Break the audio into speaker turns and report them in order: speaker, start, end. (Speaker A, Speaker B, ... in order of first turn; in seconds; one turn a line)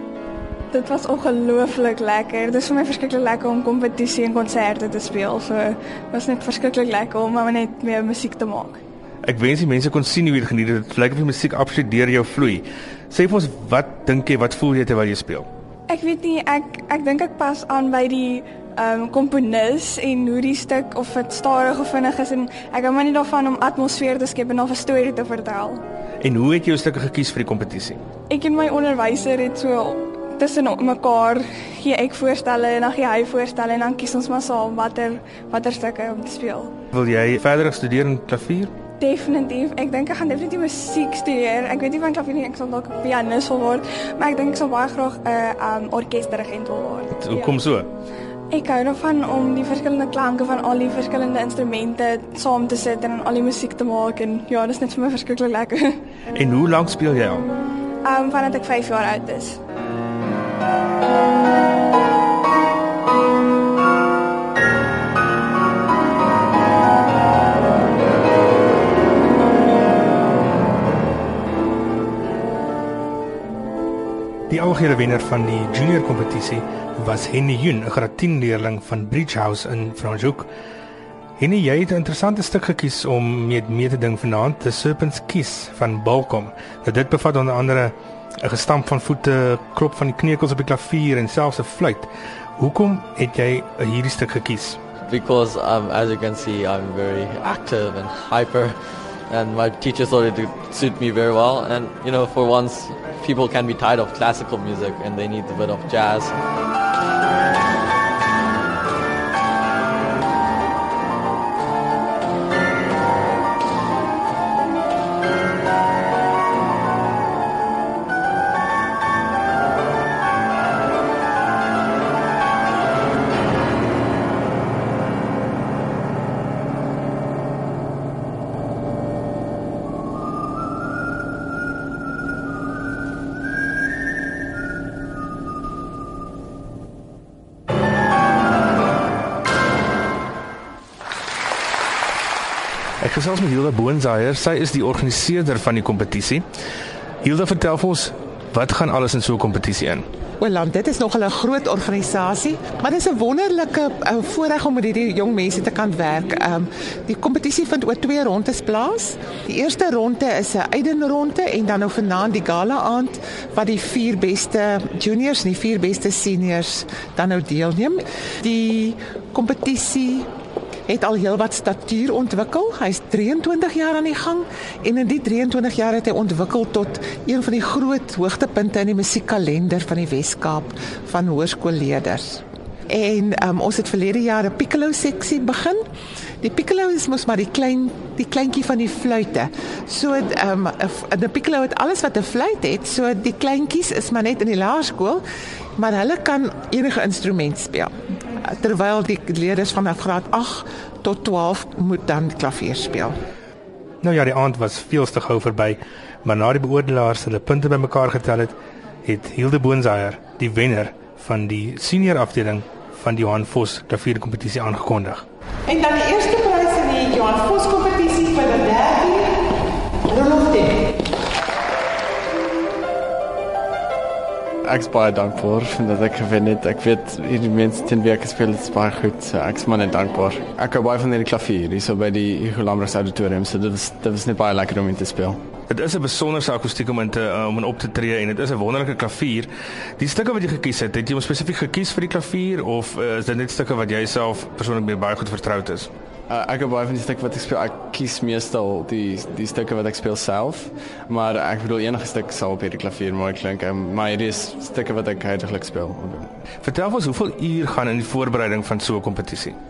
Speaker A: 0.7-8.8
Speaker B: 9.2-15.5
Speaker A: 15.9-25.8
Speaker B: 26.2-28.0
Speaker A: 28.3-36.7
Speaker B: 36.9-38.7
Speaker A: 39.0-47.6
Speaker B: 47.2-47.9
Speaker A: 48.5-56.0
Speaker B: 56.4-57.5
Speaker A: 58.1-59.6
Speaker B: 74.5-80.5
Speaker B: 81.4-94.8
Speaker C: 95.0-98.8
Speaker C: 99.3-106.3
Speaker B: 143.0-146.4
Speaker B: 147.2-150.0
Speaker D: 150.4-170.3
Speaker D: 170.9-185.8
Speaker D: 186.4-195.2
Speaker D: 195.8-197.9
Speaker D: 198.4-203.1
Speaker B: 204.0-215.2
Speaker D: 215.7-219.4
Speaker D: 220.1-220.9
Speaker E: 224.7-235.4
Speaker B: 235.7-245.9
Speaker E: 246.3-256.3
Speaker B: 256.6-259.6